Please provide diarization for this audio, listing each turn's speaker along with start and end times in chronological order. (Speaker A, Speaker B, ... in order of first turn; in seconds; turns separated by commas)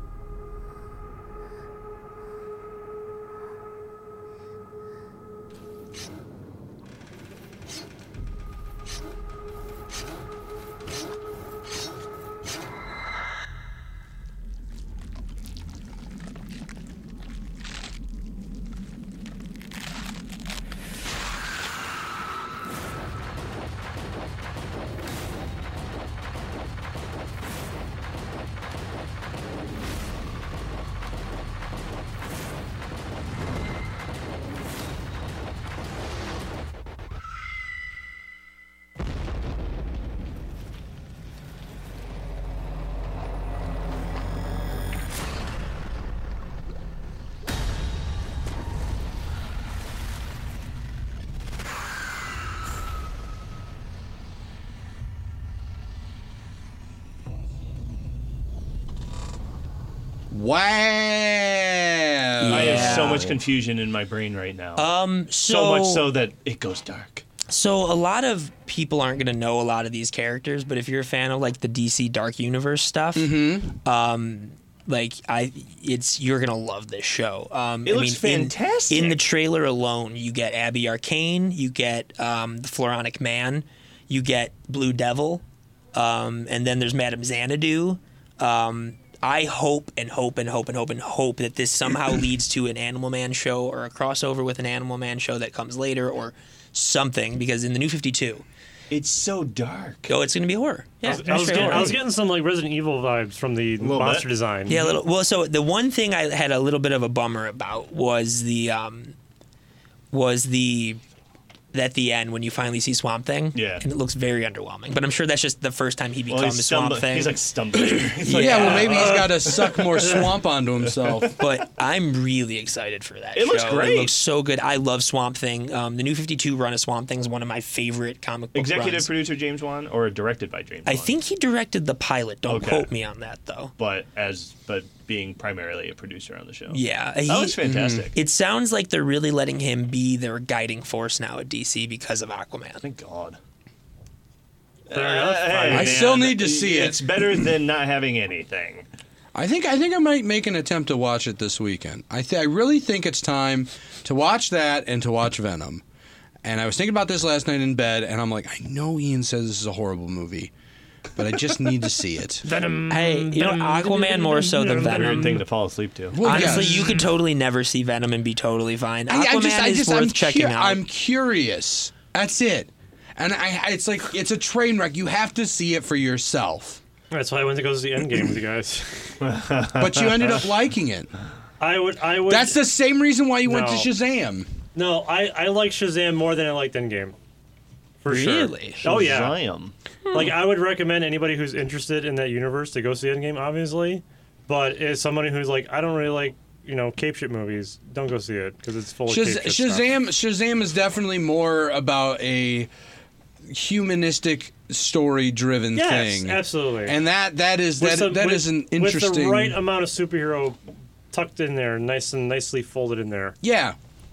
Speaker A: 60.3-63.3, Speaker B: 62.4-63.4, Speaker C: 62.5-64.9, Speaker B: 64.8-66.1, Speaker C: 65.4-67.2, Speaker B: 67.5-98.4, Speaker A: 73.2-73.7, Speaker C: 77.8-79.2, Speaker C: 98.9-100.1, Speaker B: 100.1-102.0, Speaker C: 101.0-102.0, Speaker D: 101.0-104.9, Speaker C: 103.8-104.3, Speaker B: 104.7-109.2, Speaker B: 110.1-111.0, Speaker B: 111.7-117.3, Speaker C: 113.5-113.8, Speaker C: 116.3-120.0, Speaker B: 118.2-119.1, Speaker A: 118.3-121.4, Speaker D: 118.9-120.3, Speaker C: 121.0-121.4, Speaker B: 121.4-129.1, Speaker C: 123.3-124.1, Speaker C: 128.5-131.2, Speaker B: 130.9-133.7, Speaker C: 132.5-132.9, Speaker C: 133.8-138.2, Speaker B: 136.7-142.8, Speaker A: 137.6-138.1, Speaker C: 142.8-143.4, Speaker C: 144.9-148.9, Speaker D: 144.9-146.2, Speaker A: 145.7-147.2, Speaker A: 149.3-155.8, Speaker A: 156.4-160.5, Speaker A: 161.2-162.4, Speaker D: 162.4-165.4, Speaker B: 162.9-165.4, Speaker C: 164.8-166.2, Speaker A: 166.1-167.0, Speaker B: 166.2-170.8, Speaker D: 166.3-167.1, Speaker A: 169.1-176.8, Speaker D: 177.1-179.2, Speaker C: 179.2-180.4, Speaker A: 179.8-181.1, Speaker D: 181.6-182.6, Speaker A: 182.3-184.5, Speaker D: 183.5-183.9, Speaker D: 184.8-187.2, Speaker D: 188.0-189.4, Speaker B: 188.1-188.9, Speaker C: 188.8-189.7, Speaker B: 190.1-190.3, Speaker D: 190.1-199.9, Speaker A: 199.1-202.7, Speaker A: 203.5-209.6, Speaker D: 205.7-207.0, Speaker D: 207.8-210.6, Speaker D: 211.1-213.4, Speaker A: 213.4-213.8